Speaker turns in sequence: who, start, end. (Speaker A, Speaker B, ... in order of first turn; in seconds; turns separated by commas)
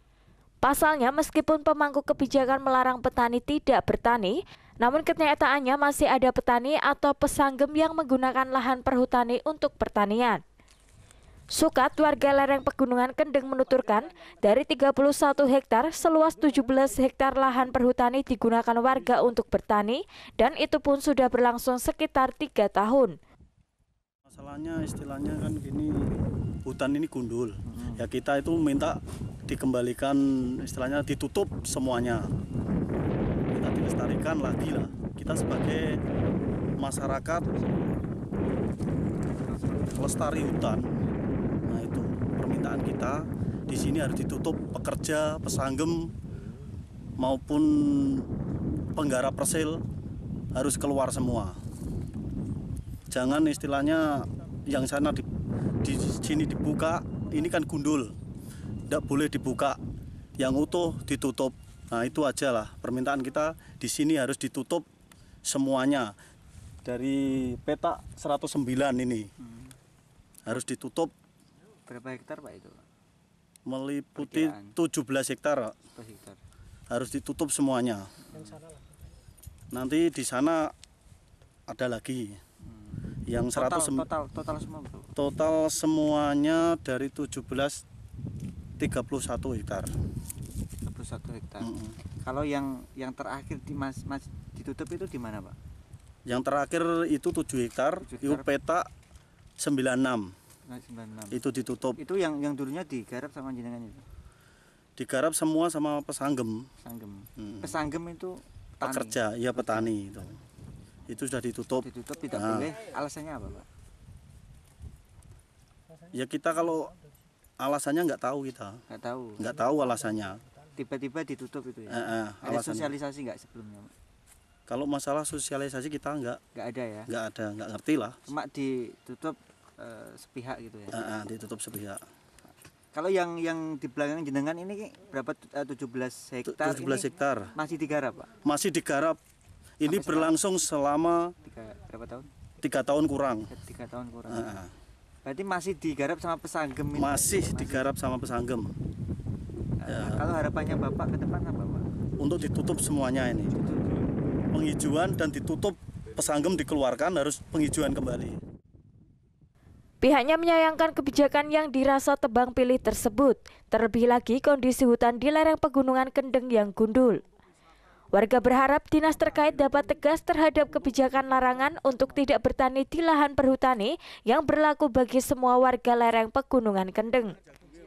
Speaker A: 0.6-10.4, Speaker A: 11.5-23.1, Speaker B: 24.3-32.3, Speaker C: 27.7-28.0, Speaker B: 33.5-36.0, Speaker B: 36.8-37.5, Speaker C: 39.4-40.0, Speaker B: 39.9-40.9, Speaker B: 41.7-46.1, Speaker B: 47.2-48.3, Speaker B: 48.9-49.8, Speaker B: 50.5-51.6, Speaker B: 53.1-55.2, Speaker B: 55.8-58.1, Speaker B: 58.9-59.8, Speaker B: 60.4-64.8, Speaker B: 65.5-66.1, Speaker B: 66.8-69.3, Speaker C: 69.4-69.7, Speaker B: 70.5-71.1, Speaker C: 71.9-72.8, Speaker B: 73.7-75.8, Speaker C: 74.2-74.7, Speaker C: 75.9-76.4, Speaker B: 76.9-78.1, Speaker C: 78.3-78.7, Speaker B: 79.7-80.7, Speaker B: 81.7-82.4, Speaker C: 82.7-83.0, Speaker B: 83.3-84.0, Speaker C: 83.5-85.1, Speaker B: 85.2-87.8, Speaker B: 88.8-89.9, Speaker C: 90.8-91.7, Speaker B: 91.6-92.0, Speaker C: 92.2-95.5, Speaker B: 96.2-98.9, Speaker C: 98.0-98.5, Speaker B: 99.6-100.3, Speaker C: 100.7-101.4, Speaker B: 101.3-102.0, Speaker C: 102.0-104.0, Speaker B: 105.0-106.7, Speaker C: 106.8-109.9, Speaker B: 107.4-107.7, Speaker B: 108.8-110.4, Speaker B: 111.1-112.7, Speaker C: 111.8-113.7, Speaker B: 116.1-116.9, Speaker B: 117.6-118.8, Speaker C: 118.9-119.5, Speaker B: 119.4-120.4, Speaker C: 120.7-123.9, Speaker B: 121.9-122.9, Speaker B: 124.7-126.4, Speaker C: 126.5-127.1, Speaker B: 127.1-128.2, Speaker C: 128.3-131.0, Speaker B: 130.9-132.0, Speaker C: 132.9-138.3, Speaker B: 136.4-137.5, Speaker B: 138.4-139.2, Speaker B: 139.8-141.3, Speaker C: 139.8-140.3, Speaker C: 141.4-142.3, Speaker B: 142.6-143.5, Speaker C: 143.5-144.6, Speaker B: 144.3-144.7, Speaker C: 145.2-147.9, Speaker B: 146.9-148.7, Speaker C: 149.8-151.9, Speaker B: 149.9-150.2, Speaker B: 152.2-153.5, Speaker C: 153.5-154.0, Speaker B: 154.5-158.4, Speaker A: 160.0-167.2, Speaker A: 168.1-177.3